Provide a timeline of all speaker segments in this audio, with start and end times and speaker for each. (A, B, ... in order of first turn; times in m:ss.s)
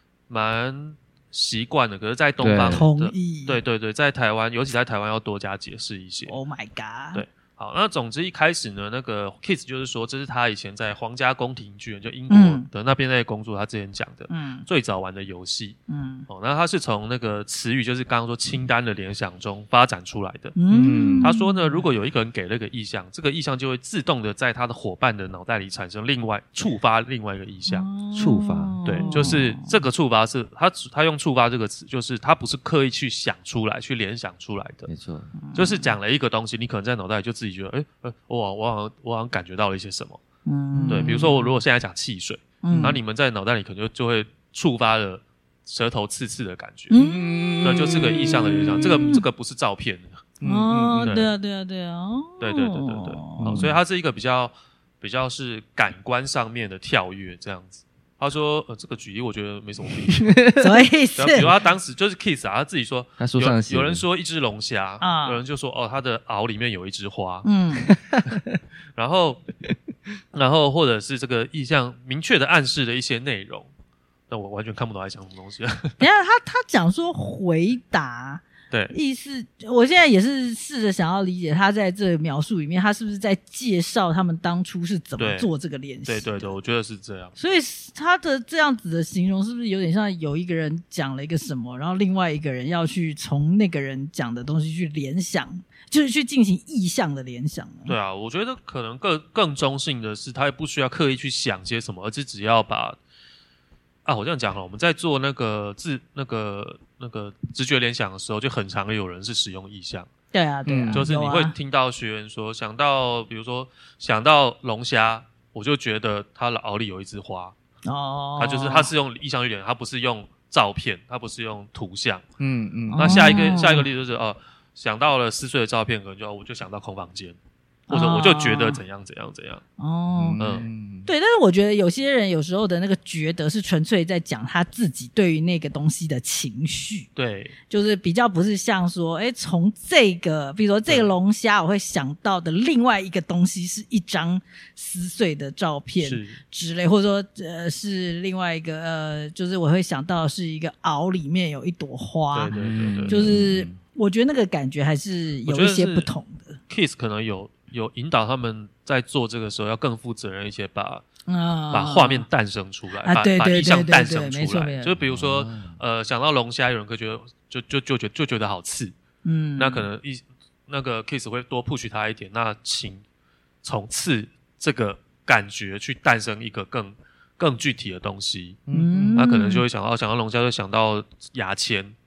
0:00.3-0:06.4 A
0:02.4-0:02.8 B
0:02.7-0:03.6 C
0:06.3-0:07.2 C
0:07.1-0:15.8 A
0:12.3-0:12.7 C
0:14.3-0:14.6 C
0:15.9-0:16.3 C
0:16.3-0:20.6 A
0:20.5-0:21.8 C
0:20.7-0:21.3 B
0:21.2-0:27.9 A
0:27.7-0:29.7 C
0:28.1-0:29.4 B
0:28.8-0:34.9 A
0:34.9-0:35.3 B
0:35.4-0:36.0 C
0:35.5-0:40.2 A
0:40.4-0:41.3 C
0:40.7-0:41.5 B
0:40.9-0:46.9 A
0:42.6-0:43.0 C
0:42.7-0:43.0 B
0:46.9-0:49.2 C
0:46.9-0:48.8 B
0:47.6-0:50.2 A
0:50.4-0:51.1 B
0:50.4-0:53.6 C
0:51.0-0:51.3 A
0:52.4-1:00.4 A
0:53.4-0:53.8 B
1:00.1-1:00.7 B
1:00.6-1:01.5 C
1:01.2-1:07.4 A
1:03.2-1:04.0 B
1:05.0-1:05.4 C
1:07.4-1:07.9 C
1:07.9-1:08.6 B
1:09.0-1:09.4 A
1:10.3-1:13.7 A
1:14.3-1:16.0 A
1:16.0-1:26.6 C
1:25.2-1:25.5 A
1:26.0-1:27.3 A
1:27.4-1:38.0 C
1:37.8-1:43.0 A
1:44.0-1:50.1 A
1:50.3-1:51.5 C
1:50.6-1:51.0 B
1:50.9-1:57.5 A
1:57.8-1:58.9 C
1:58.4-2:02.2 A
2:02.4-2:03.7 B
2:02.9-2:03.9 C
2:03.0-2:07.4 A
2:07.9-2:08.8 C
2:07.9-2:09.6 A
2:09.8-2:10.4 C
2:10.1-2:11.1 B
2:10.4-2:10.7 A
2:11.0-2:17.1 C
2:17.2-2:17.5 A
2:17.7-2:32.5 C
2:26.0-2:26.4 A
2:32.3-2:33.2 A
2:32.5-2:33.8 B
2:33.1-2:36.6 C
2:35.4-2:36.1 A
2:36.7-2:41.0 A
2:41.3-2:42.2 C
2:41.7-2:48.9 A
2:43.0-2:44.9 C
2:45.0-2:45.8 B
2:49.2-2:49.8 C
2:49.6-2:53.0 A
2:53.6-2:58.6 A
2:58.7-2:59.2 B
2:58.7-2:59.6 C
2:59.1-3:01.9 A